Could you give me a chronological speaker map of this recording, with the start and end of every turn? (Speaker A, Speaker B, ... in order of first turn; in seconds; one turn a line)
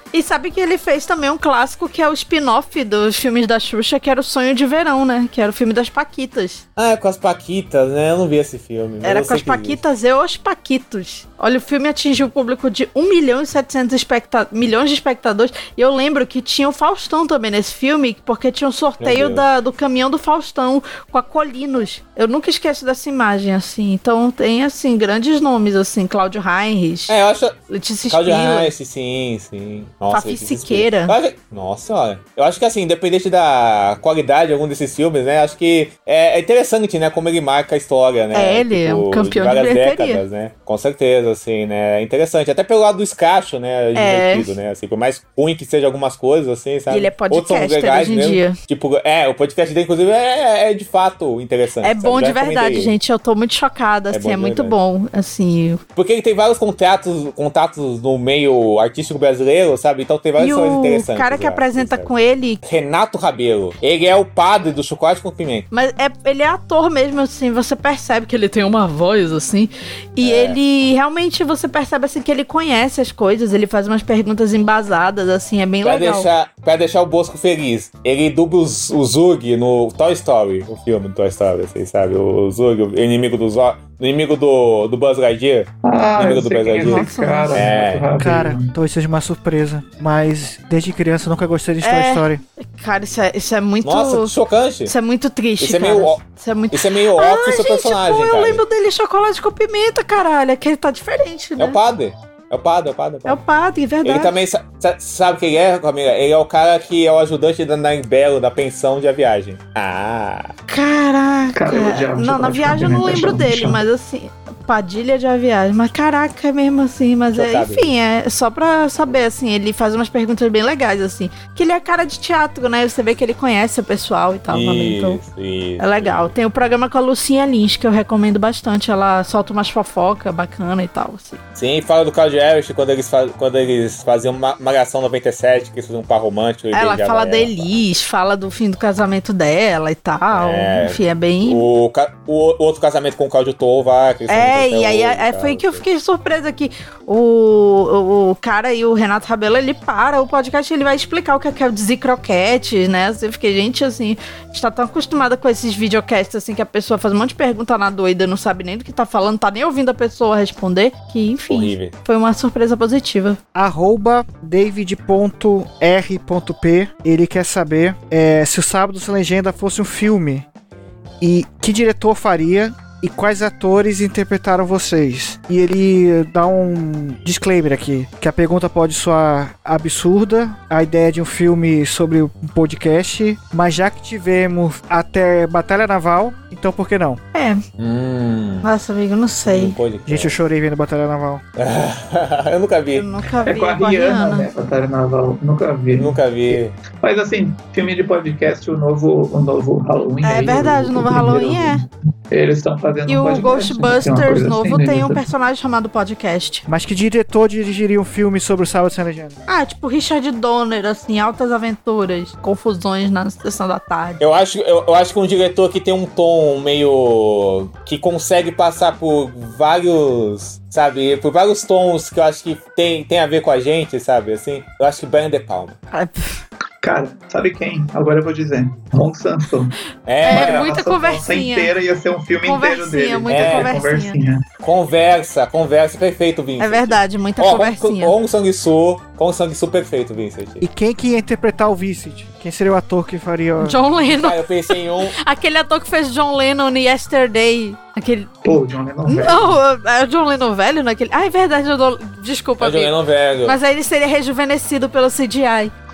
Speaker A: 0.1-6.6
Speaker B: 6.8-9.8
Speaker A: 9.0-27.2
Speaker B: 19.0-19.5
Speaker B: 27.1-27.6
Speaker A: 27.7-28.7
Speaker B: 28.1-53.0
Speaker A: 30.1-31.2
Speaker A: 38.3-40.2
Speaker A: 44.0-44.5
Speaker A: 46.9-48.6
Speaker A: 51.8-55.8
Speaker B: 54.1-54.8
Speaker B: 56.0-62.1
Speaker A: 60.4-62.6
Speaker B: 62.6-65.7
Speaker A: 65.7-76.3
Speaker B: 70.2-70.6
Speaker B: 75.8-88.1
Speaker C: 85.8-88.7
Speaker A: 86.8-87.7
Speaker D: 88.2-92.4
Speaker A: 91.8-94.3
Speaker B: 93.8-94.9
Speaker A: 94.9-101.8
Speaker B: 95.6-98.6
Speaker B: 101.6-103.4
Speaker A: 103.3-104.4
Speaker B: 104.0-110.5
Speaker A: 110.7-125.2
Speaker C: 111.5-113.8
Speaker B: 117.3-117.9
Speaker B: 124.5-126.3
Speaker A: 125.8-131.4
Speaker B: 131.6-137.8
Speaker A: 136.7-141.6
Speaker B: 140.3-145.8
Speaker A: 144.3-163.4
Speaker B: 161.5-162.0
Speaker D: 163.5-170.4
Speaker D: 171.2-187.2
Speaker A: 187.3-187.6
Speaker B: 187.8-188.7
Speaker A: 188.6-189.8
Speaker B: 189.4-190.4
Speaker D: 190.1-191.4
Speaker B: 191.6-193.1
Speaker A: 192.9-194.5
Speaker C: 193.4-205.2
Speaker B: 196.0-196.8
Speaker A: 200.2-201.8
Speaker A: 203.1-206.7
Speaker D: 206.7-209.4
Speaker A: 209.5-214.2
Speaker B: 214.2-225.8
Speaker A: 225.9-226.3
Speaker C: 226.8-229.7
Speaker B: 230.1-230.8
Speaker A: 230.2-231.7
Speaker C: 230.3-234.4
Speaker A: 232.4-234.2
Speaker B: 233.3-233.7
Speaker B: 234.6-240.6
Speaker A: 236.6-238.1
Speaker D: 240.6-243.8
Speaker A: 243.6-244.4
Speaker B: 244.1-245.2
Speaker A: 245.1-248.3
Speaker C: 248.4-249.6
Speaker A: 249.1-255.7
Speaker B: 252.6-253.6